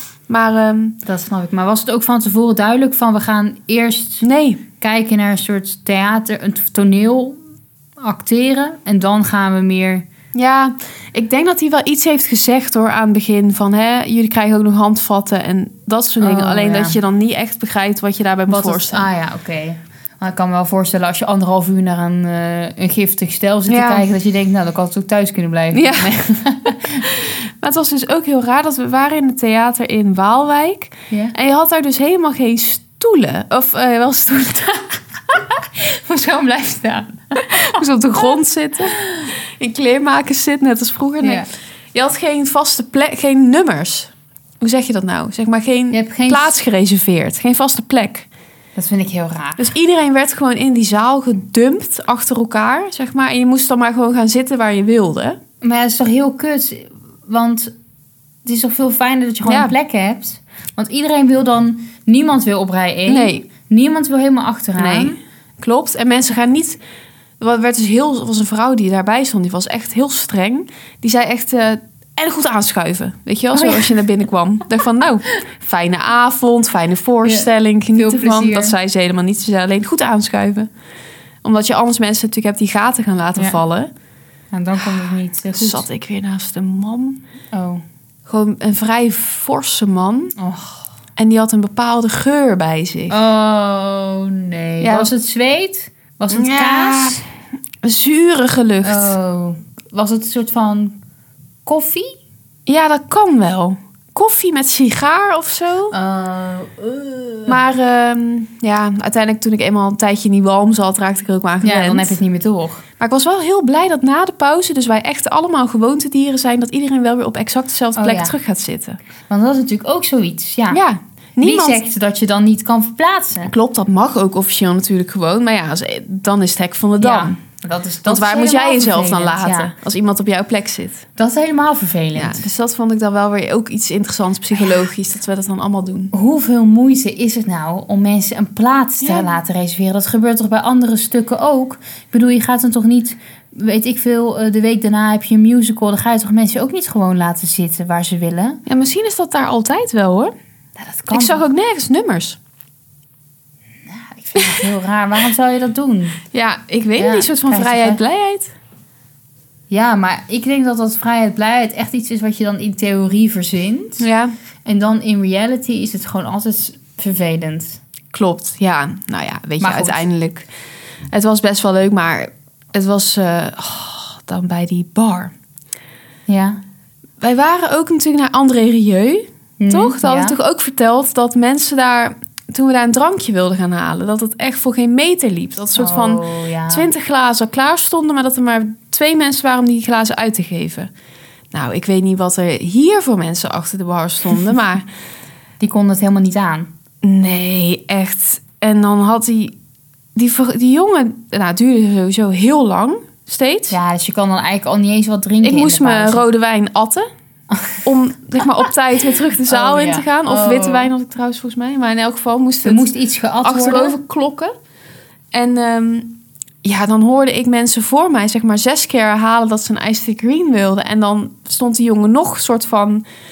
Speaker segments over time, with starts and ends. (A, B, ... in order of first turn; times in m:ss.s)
0:00.3-0:01.0 A
0:01.0-0:04.2 B
0:04.2-0:04.6 A
0:04.8-0:07.4 B
0:08.0-0:10.1 B
0:10.3-0:19.0 A
0:16.2-0:17.0 B
0:18.5-0:27.1 B
0:23.7-0:24.0 A
0:25.7-0:26.1 A
0:27.0-0:34.8 A
0:35.3-0:38.3 B
0:37.5-0:48.2 A
0:38.9-0:39.3 B
0:41.2-0:41.5 B
0:45.9-0:46.6 B
0:48.8-0:49.7 B
0:49.6-0:55.4 A
0:55.6-0:57.7 B
0:58.4-1:05.2 B
0:59.4-0:59.7 A
1:03.1-1:03.4 A
1:04.8-1:06.8 A
1:07.4-1:20.7 A
1:13.5-1:14.0 B
1:17.2-1:18.7 B
1:21.4-1:23.9 A
1:24.5-1:25.8 B
1:24.8-1:27.2 A
1:27.5-1:27.8 B
1:28.2-1:30.3 A
1:30.4-1:30.8 B
1:31.2-1:33.1 A
1:33.1-1:37.2 B
1:34.8-1:35.1 A
1:36.3-1:37.2 A
1:37.8-1:39.1 A
1:38.8-1:41.0 B
1:41.6-1:42.2 B
1:42.6-1:45.9 A
1:45.9-1:47.6 B
1:47.5-1:52.2 A
1:51.6-1:52.8 B
1:53.0-1:59.0 A
1:58.0-1:58.3 B
1:59.3-2:00.8 B
2:00.7-2:01.8 A
2:01.4-2:03.5 B
2:03.5-2:07.4 A
2:07.0-2:09.7 B
2:08.0-2:11.0 A
2:11.2-2:12.4 B
2:12.1-2:16.1 A
2:16.1-2:28.6 B
2:28.6-2:30.3 A
2:30.8-2:31.4 B
2:31.1-2:32.4 A
2:33.9-2:36.2 B
2:34.4-2:34.6 A
2:36.3-2:38.5 A
2:37.0-2:38.0 B
2:39.7-2:44.0 B
2:44.0-2:44.3 A
2:44.6-2:47.8 B
2:48.1-2:50.5 A
2:49.6-2:50.0 B
2:51.1-2:55.3 A
2:56.3-2:56.6 B
2:57.2-3:10.9 A
2:59.6-3:00.4 B
3:05.8-3:06.9 B
3:11.5-3:14.9 A
3:15.6-3:16.7 B
3:17.0-3:19.6 A
3:20.1-3:23.8 A
3:23.7-3:26.2 B
3:25.4-3:27.1 A
3:27.5-3:27.8 B
3:27.8-3:32.9 A
3:28.4-3:28.7 B
3:29.5-3:30.9 B
3:32.6-3:34.0 B
3:33.4-3:34.5 A
3:35.3-3:43.0 A